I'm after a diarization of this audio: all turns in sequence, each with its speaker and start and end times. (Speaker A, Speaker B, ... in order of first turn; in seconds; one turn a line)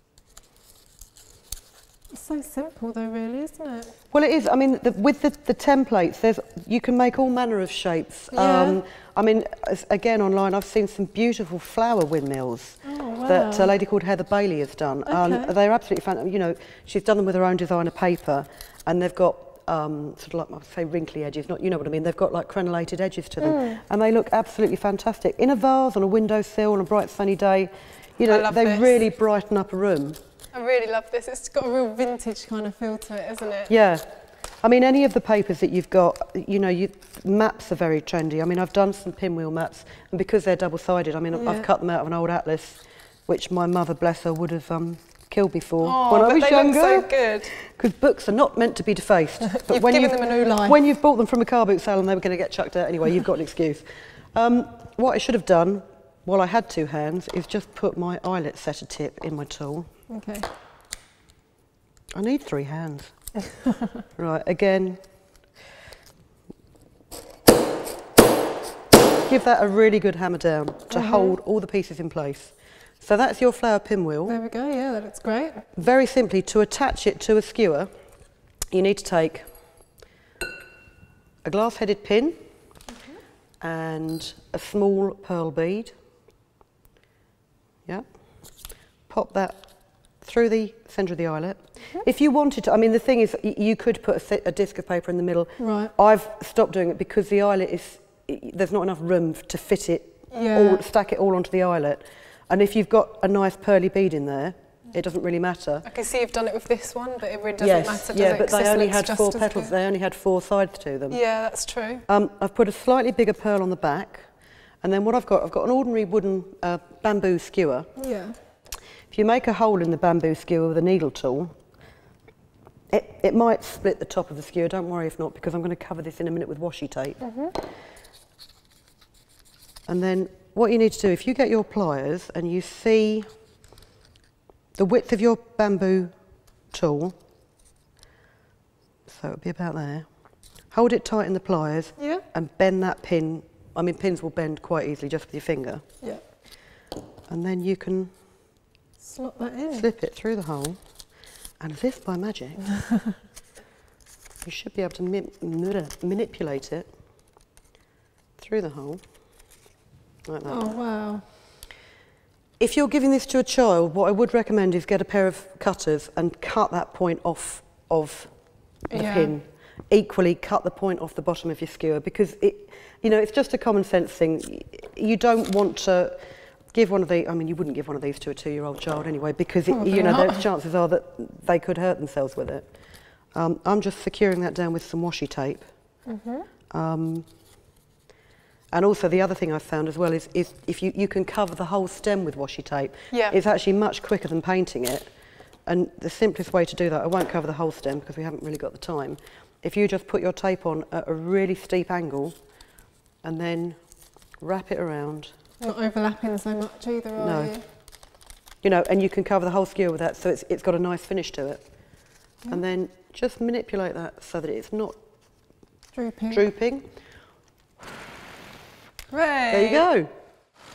Speaker A: 2.1-4.0
Speaker B: 4.1-30.2
Speaker A: 8.3-8.8
Speaker A: 12.8-13.7
Speaker A: 15.0-15.5
Speaker A: 23.4-23.8
Speaker A: 28.2-29.0
Speaker A: 30.5-33.7
Speaker B: 33.7-34.0
Speaker B: 34.6-59.9
Speaker A: 41.3-41.7
Speaker A: 45.8-47.5
Speaker A: 49.5-50.8
Speaker A: 60.1-60.5
Speaker B: 62.1-63.1
Speaker B: 64.1-65.0
Speaker B: 69.2-74.4
Speaker A: 70.9-71.3
Speaker A: 74.2-75.6
Speaker B: 75.8-77.9
Speaker B: 78.7-79.4
Speaker B: 81.4-82.4
Speaker B: 83.6-85.9
Speaker B: 89.1-89.6
Speaker B: 90.2-105.8
Speaker A: 95.6-95.9
Speaker A: 100.3-100.8
Speaker A: 105.8-109.7
Speaker B: 107.6-111.2
Speaker A: 111.1-112.0
Speaker B: 112.1-114.3
Speaker B: 114.8-117.9
Speaker A: 118.0-118.3
Speaker B: 119.1-121.5
Speaker B: 122.9-127.2
Speaker A: 127.2-127.5
Speaker B: 129.9-133.3
Speaker B: 134.8-136.1
Speaker B: 136.7-137.2
Speaker B: 139.1-140.1
Speaker B: 140.7-145.8
Speaker A: 142.0-142.2
Speaker B: 147.3-148.1
Speaker A: 149.0-149.9
Speaker B: 149.7-150.8
Speaker B: 151.6-152.7
Speaker B: 154.4-156.9
Speaker B: 158.4-159.0
Speaker B: 160.2-160.7
Speaker A: 160.5-161.2
Speaker B: 162.6-168.3
Speaker B: 168.9-176.2
Speaker A: 168.9-169.3
Speaker B: 176.7-182.7
Speaker A: 179.7-180.4
Speaker B: 183.3-185.7
Speaker A: 186.1-186.5
Speaker B: 186.7-187.3
Speaker B: 188.7-195.1
Speaker A: 193.1-193.4
Speaker B: 195.7-202.3
Speaker B: 203.2-203.8
Speaker B: 204.4-205.3
Speaker A: 205.6-207.6
Speaker B: 207.2-207.6
Speaker B: 208.6-211.6
Speaker B: 212.5-214.9
Speaker A: 215.9-216.4
Speaker B: 216.3-216.9
Speaker A: 219.1-219.8
Speaker B: 219.5-220.1